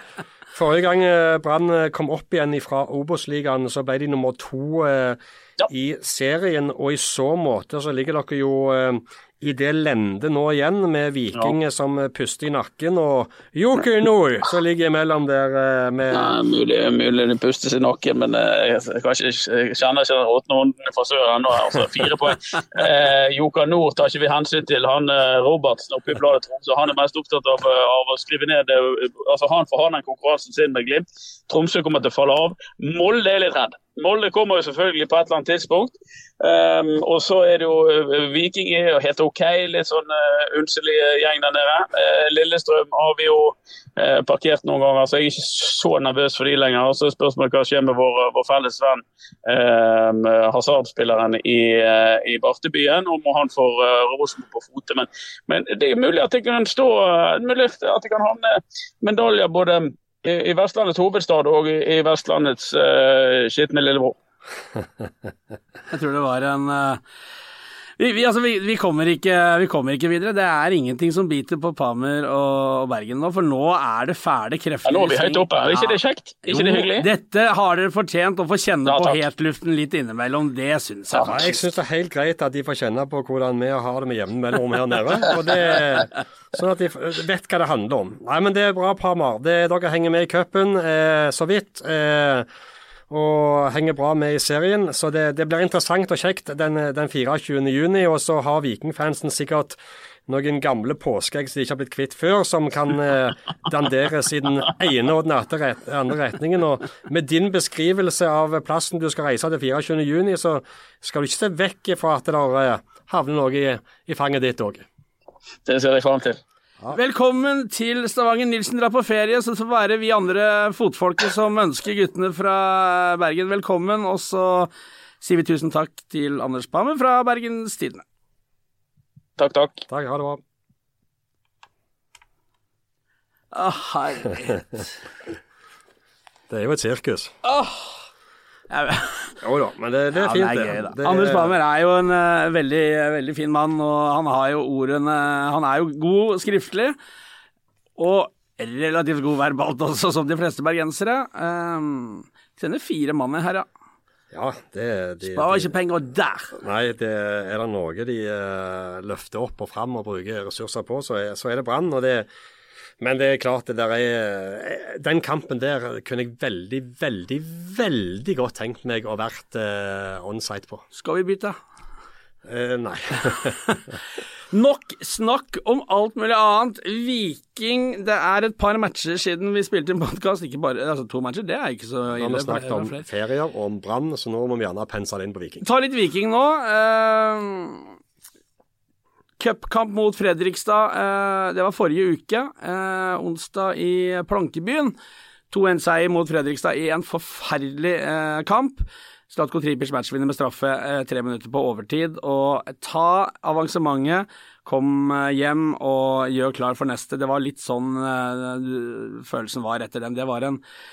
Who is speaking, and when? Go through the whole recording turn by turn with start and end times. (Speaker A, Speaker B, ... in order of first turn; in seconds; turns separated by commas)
Speaker A: 0.5-16.4, Speaker B: 16.1-64.2, Speaker C: 65.9-67.0, Speaker C: 68.0-81.5, Speaker B: 74.8-77.1, Speaker B: 78.8-79.2, Speaker A: 81.2-92.5, Speaker A: 93.1-114.8, Speaker B: 115.7-116.4, Speaker C: 116.9-124.7, Speaker C: 125.2-128.0, Speaker B: 129.4-129.8, Speaker A: 129.9-130.4, Speaker C: 133.5-134.9, Speaker A: 136.5-137.3, Speaker C: 137.4-138.1, Speaker C: 138.7-139.3, Speaker A: 139.4-141.5, Speaker C: 140.1-146.9, Speaker C: 148.0-153.7, Speaker A: 154.3-155.7, Speaker C: 155.2-156.6, Speaker A: 156.6-162.3, Speaker A: 163.0-170.8, Speaker C: 170.9-171.6, Speaker A: 172.4-173.6, Speaker C: 174.5-183.0, Speaker A: 182.2-185.6, Speaker C: 185.6-187.9, Speaker C: 189.4-194.9, Speaker C: 195.5-210.6